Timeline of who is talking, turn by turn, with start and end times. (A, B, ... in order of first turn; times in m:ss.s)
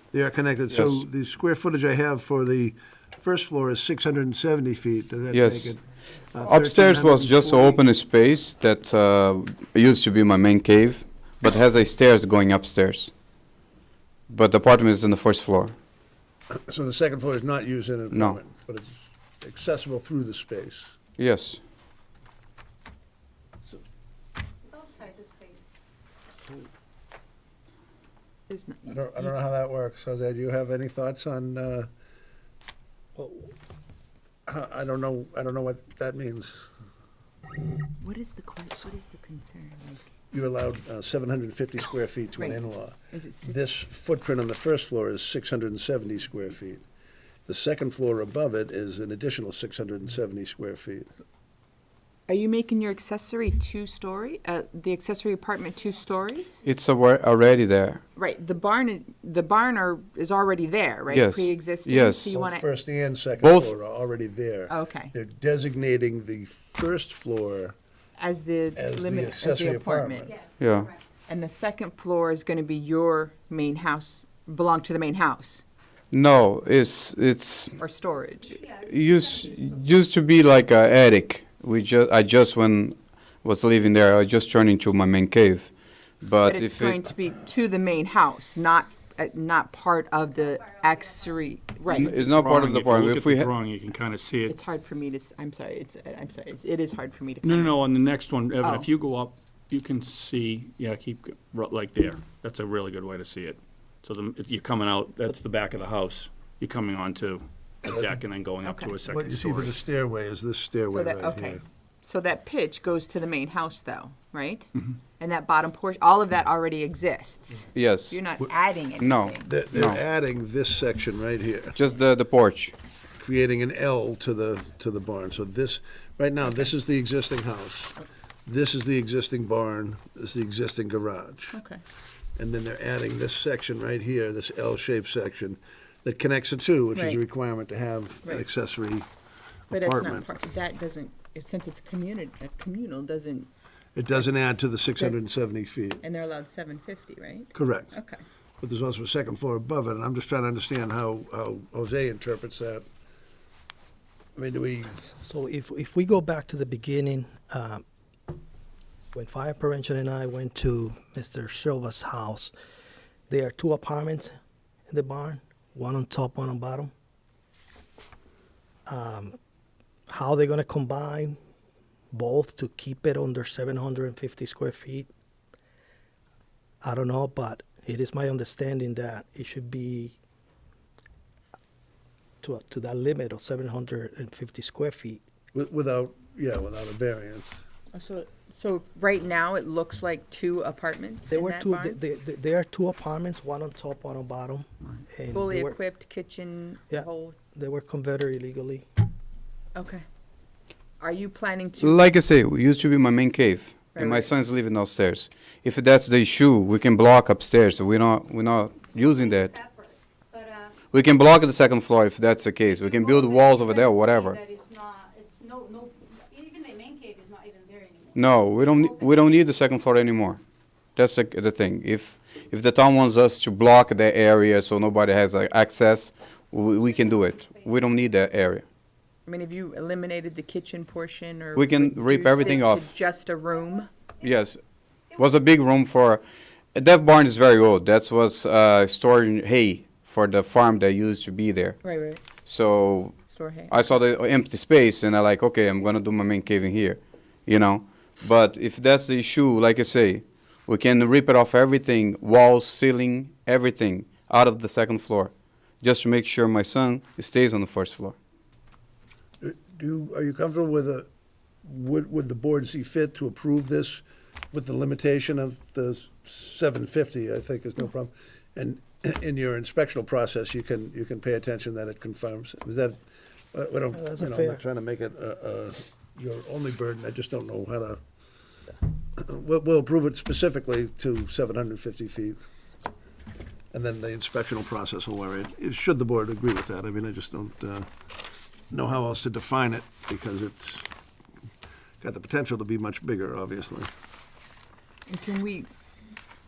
0:00.1-0:07.8 A
0:00.7-0:01.0 B
0:05.3-0:05.7 B
0:06.4-0:13.1 B
0:14.3-0:15.8 B
0:16.6-0:20.9 A
0:18.1-0:18.4 B
0:21.2-0:21.6 B
0:24.8-0:25.6 C
0:28.5-0:29.4 D
0:28.9-0:31.9 A
0:33.2-0:33.5 E
0:34.5-0:36.7 A
0:38.0-0:40.1 D
0:40.3-0:46.8 A
0:42.4-0:43.7 D
0:47.5-0:51.1 A
0:52.3-0:56.6 D
0:56.6-0:58.0 B
0:58.2-1:02.7 D
1:01.1-1:02.3 B
1:02.3-1:07.8 A
1:03.4-1:03.7 B
1:04.7-1:05.1 D
1:08.2-1:10.3 D
1:08.8-1:10.4 A
1:10.6-1:10.9 B
1:11.3-1:15.6 D
1:16.1-1:17.8 B
1:17.8-1:18.6 D
1:18.7-1:25.7 B
1:26.2-1:27.0 B
1:26.4-1:32.2 D
1:31.9-1:33.5 B
1:32.1-1:34.6 F
1:34.5-1:37.8 D
1:37.4-1:49.8 F
1:38.6-1:38.9 D
1:48.6-1:49.0 D
1:49.0-1:51.6 A
1:50.9-1:59.6 D
1:57.8-1:58.2 B
1:59.0-2:00.0 B
1:59.4-2:01.8 A
2:01.8-2:02.7 B
2:03.2-2:11.6 A
2:11.5-2:11.8 D
2:12.4-2:19.1 A
2:16.9-2:17.2 D
2:19.7-2:23.5 D
2:19.7-2:20.3 A
2:24.0-2:26.0 A
2:26.0-2:28.2 D
2:27.5-2:28.0 A
2:28.6-2:32.8 A
2:34.4-2:35.0 A
2:35.1-2:37.8 E
2:39.1-2:42.5 E
2:43.3-2:44.3 E
2:44.9-2:46.9 E
2:48.9-2:49.4 E
2:50.1-2:51.4 E
2:52.1-2:55.1 E
2:56.8-3:00.2 E
3:02.4-3:05.2 E
3:05.5-3:07.6 A
3:07.9-3:12.0 D
3:11.3-3:15.8 E
3:15.3-3:17.4 D
3:16.9-3:18.9 E
3:19.8-3:20.0 D
3:21.0-3:22.1 D
3:21.8-3:29.6 B
3:24.0-3:24.3 D
3:30.9-3:34.4 B
3:34.3-3:38.1 C
3:38.2-3:40.4 B
3:41.0-3:48.6 B
3:49.3-3:53.9 D
3:51.6-3:52.9 B
3:54.2-3:54.6 B
3:55.1-3:56.2 B
3:56.8-4:18.2 B
4:01.8-4:02.2 D
4:03.3-4:03.8 D
4:19.4-4:21.1 A
4:21.6-4:33.0 A
4:33.5-4:38.0 A
4:33.9-4:34.6 E
4:39.2-4:42.4 A
4:43.7-4:47.9 A
4:48.7-4:50.9 A
4:52.0-4:53.9 A
4:55.1-4:55.7 D